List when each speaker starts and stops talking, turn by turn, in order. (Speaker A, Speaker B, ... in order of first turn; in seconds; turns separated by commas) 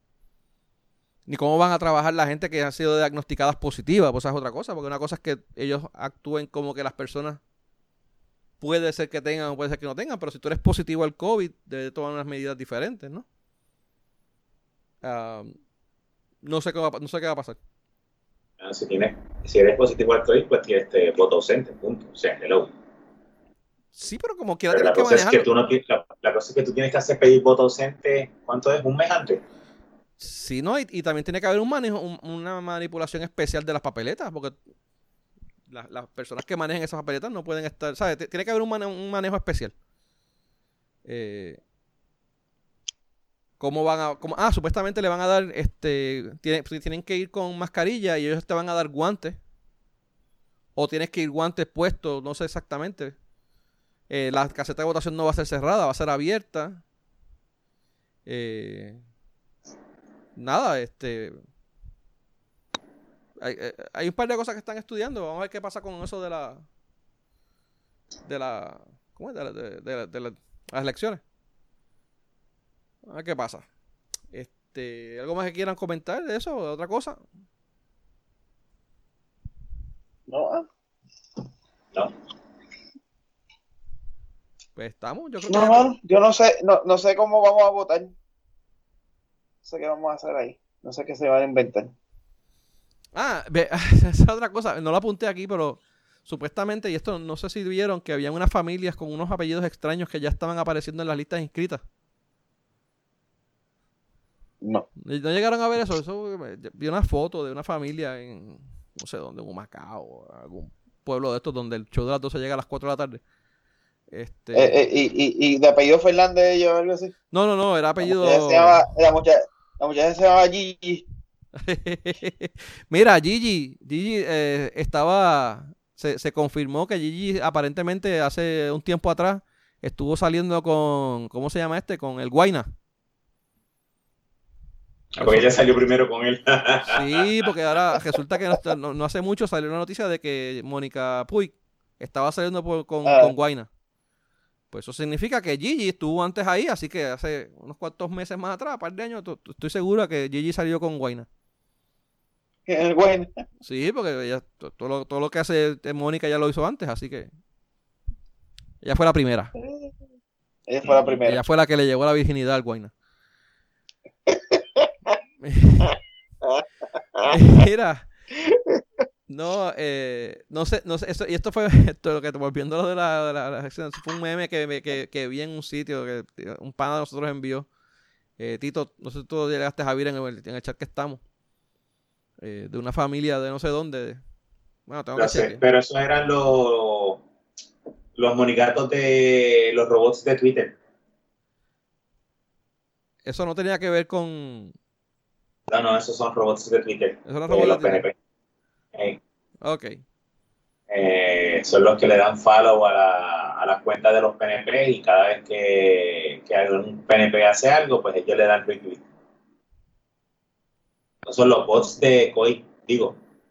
Speaker A: 1.3-7.4, Speaker A: 8.6-13.3, Speaker A: 15.0-15.6, Speaker A: 16.4-17.6, Speaker B: 18.6-22.7, Speaker A: 24.0-25.5, Speaker B: 24.7-29.4, Speaker A: 30.2-34.6, Speaker A: 35.7-39.7, Speaker A: 41.1-41.6, Speaker A: 43.6-49.4, Speaker A: 50.8-53.1, Speaker A: 54.1-56.8, Speaker A: 58.3-59.0, Speaker A: 60.4-61.4, Speaker A: 63.4-66.6, Speaker A: 68.3-71.2, Speaker A: 73.1-73.7, Speaker A: 74.3-77.2, Speaker C: 80.3-80.7, Speaker A: 84.8-85.9, Speaker C: 85.5-88.1, Speaker C: 89.6-91.9, Speaker A: 93.1-101.8, Speaker A: 105.0-113.2, Speaker A: 114.1-114.8, Speaker C: 114.5-117.1, Speaker A: 117.3-118.9, Speaker C: 118.0-121.0, Speaker A: 121.5-132.7, Speaker B: 135.2-137.2, Speaker A: 135.2-135.5, Speaker A: 136.9-143.7, Speaker C: 143.1-143.3, Speaker A: 144.7-151.3, Speaker C: 152.7-153.3, Speaker A: 153.6-157.3, Speaker A: 158.8-159.5, Speaker C: 159.6-159.9, Speaker C: 160.7-161.4, Speaker B: 160.8-161.1, Speaker A: 161.2-162.9, Speaker C: 164.3-165.2, Speaker A: 165.4-165.9, Speaker A: 167.3-168.1, Speaker C: 168.4-168.8, Speaker A: 169.3-177.7, Speaker A: 178.4-181.2, Speaker A: 182.4-184.2, Speaker A: 184.9-185.6, Speaker B: 185.2-187.2, Speaker B: 188.2-190.8, Speaker A: 193.2-194.7, Speaker B: 195.7-198.2, Speaker A: 197.3-198.0, Speaker B: 198.9-199.2, Speaker A: 199.6-200.0, Speaker B: 200.9-209.1, Speaker B: 211.2-213.2